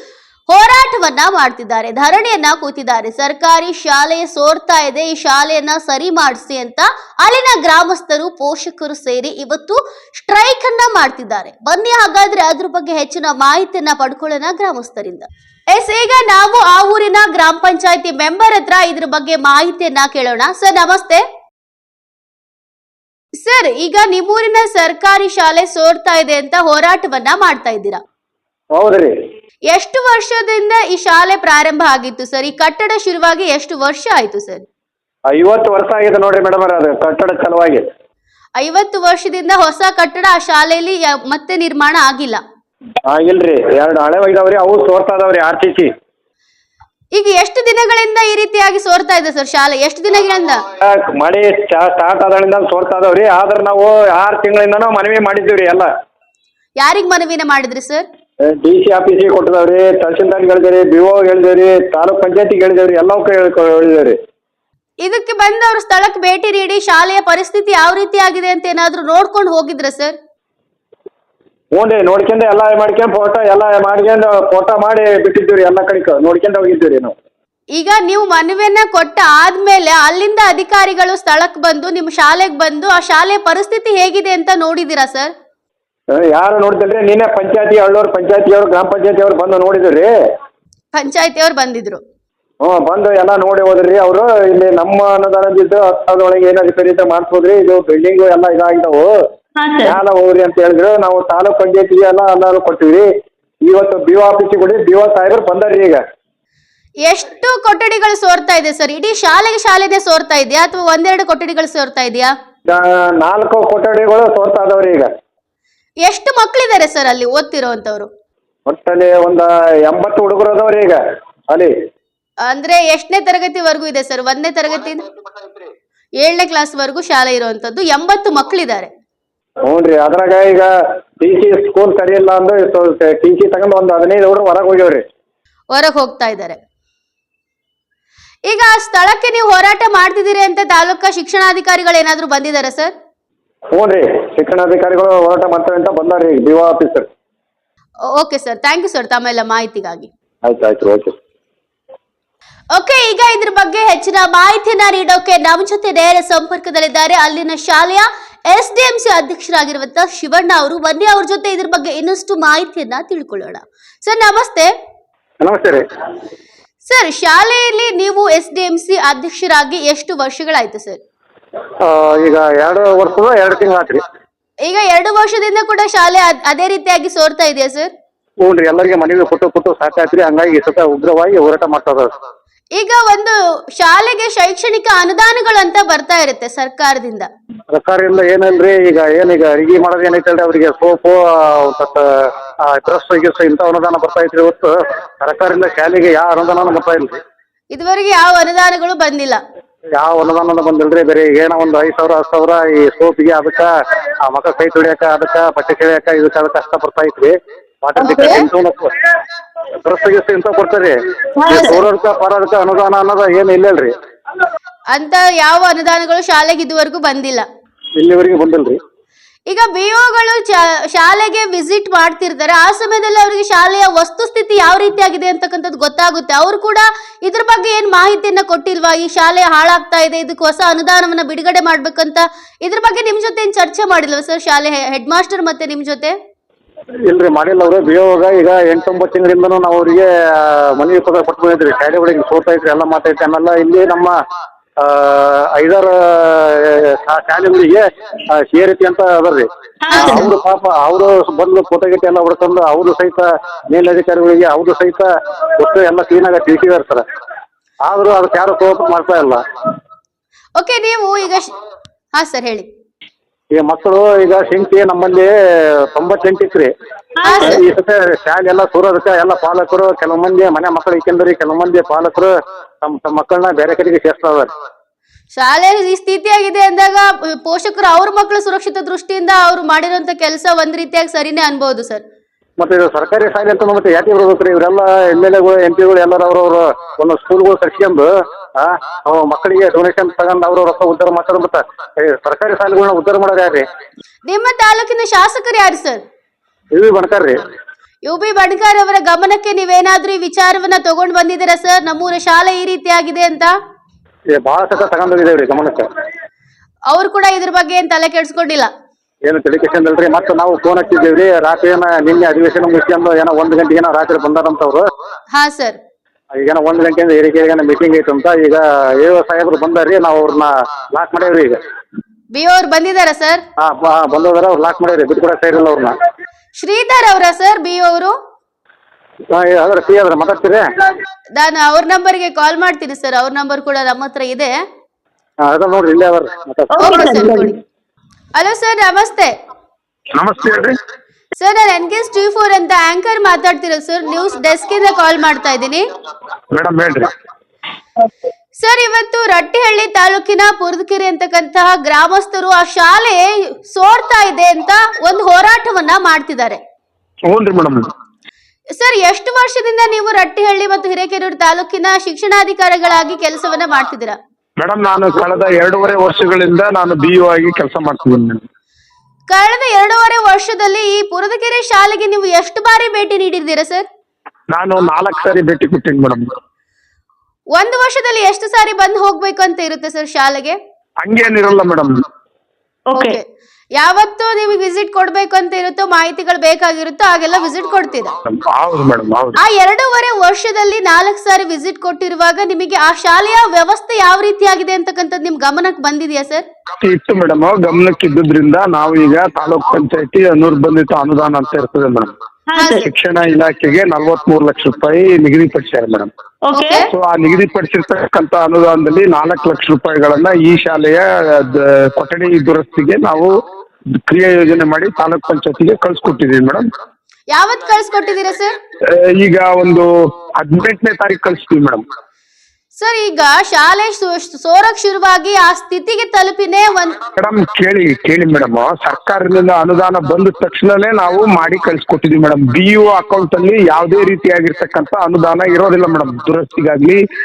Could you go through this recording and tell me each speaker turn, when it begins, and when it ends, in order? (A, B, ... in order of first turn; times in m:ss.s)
0:00.5-0:21.2 A
0:23.4-0:28.0 A
0:28.7-0:29.2 B
0:29.7-0:34.6 A
0:35.3-0:37.8 B
0:38.6-0:42.4 A
0:43.1-0:45.9 B
0:47.1-0:50.6 A
0:50.8-0:55.9 B
0:56.8-0:58.0 A
0:58.4-1:04.2 B
1:05.0-1:10.1 A
1:11.7-1:17.1 B
1:17.7-1:25.3 A
1:26.1-1:30.1 B
1:30.9-1:32.0 A
1:32.6-1:39.1 B
1:39.6-1:40.0 C
1:39.8-1:43.1 B
1:43.6-1:46.0 B
1:47.0-1:52.3 A
1:52.7-1:55.1 B
1:56.0-1:58.1 A
1:58.7-2:01.7 B
2:02.4-2:05.0 A
2:06.2-2:08.9 A
2:09.6-2:15.0 B
2:15.7-2:16.6 A
2:18.5-2:22.9 A
2:23.7-2:27.1 B
2:28.1-2:30.1 A
2:30.4-2:31.1 B
2:32.7-2:44.7 A
2:45.4-2:45.8 B
2:46.9-2:51.0 A
2:51.8-2:54.0 B
2:54.7-2:57.9 A
2:58.4-3:02.1 B
3:02.8-3:07.3 A
3:07.7-3:17.2 B
3:17.7-3:19.4 A
3:19.9-3:23.7 B
3:24.2-3:28.9 B
3:28.0-3:28.4 C
3:28.0-3:28.4 A
3:29.8-3:33.9 B
3:31.4-3:31.8 C
3:34.9-3:37.4 A
3:38.0-3:38.8 B
3:39.5-3:56.1 A
3:57.1-4:04.2 B
4:04.8-4:17.0 B
4:09.8-4:10.3 C
4:09.9-4:10.3 A
4:17.8-4:19.4 B
4:20.6-4:21.5 A
4:22.1-4:22.7 A
4:23.5-4:26.7 B
4:27.2-4:27.6 C
4:27.2-4:27.6 A
4:27.4-4:34.5 B
4:35.4-4:42.0 A
4:42.6-4:53.6 B
4:54.3-4:56.0 A
4:56.7-4:57.4 B
4:58.0-5:03.5 A
5:04.3-5:05.9 B
5:06.9-5:08.7 A
5:09.2-5:14.8 B
5:15.3-5:15.8 A
5:16.3-5:21.6 B
5:22.3-5:23.4 A
5:23.6-5:25.9 B
5:26.6-5:28.1 A
5:29.3-5:30.6 B
5:31.4-5:34.5 A
5:35.4-5:36.8 B
5:36.7-5:37.5 C
5:36.8-5:37.6 A
5:38.4-5:39.3 A
5:40.2-5:40.8 D
5:41.4-5:45.8 A
5:46.5-5:47.1 D
5:48.6-5:56.6 A
5:57.3-5:57.8 D
5:58.7-6:04.2 A
6:04.6-6:08.4 D
6:09.3-6:13.8 A
6:14.5-6:16.3 D
6:17.5-6:20.6 A
6:21.0-6:21.9 D
6:22.9-6:23.2 C
6:23.0-6:23.2 A
6:23.8-6:28.1 A
6:28.2-6:29.4 D
6:29.4-6:36.4 A
6:36.8-6:42.1 D
6:42.5-6:42.9 C
6:42.6-6:42.9 A
6:42.8-6:46.1 D
6:46.5-6:46.8 C
6:46.5-6:46.9 A
6:46.9-6:53.3 D
6:54.0-6:56.6 D
6:57.3-6:58.5 A
6:58.9-7:01.8 D
7:02.8-7:07.0 A
7:07.2-7:17.0 D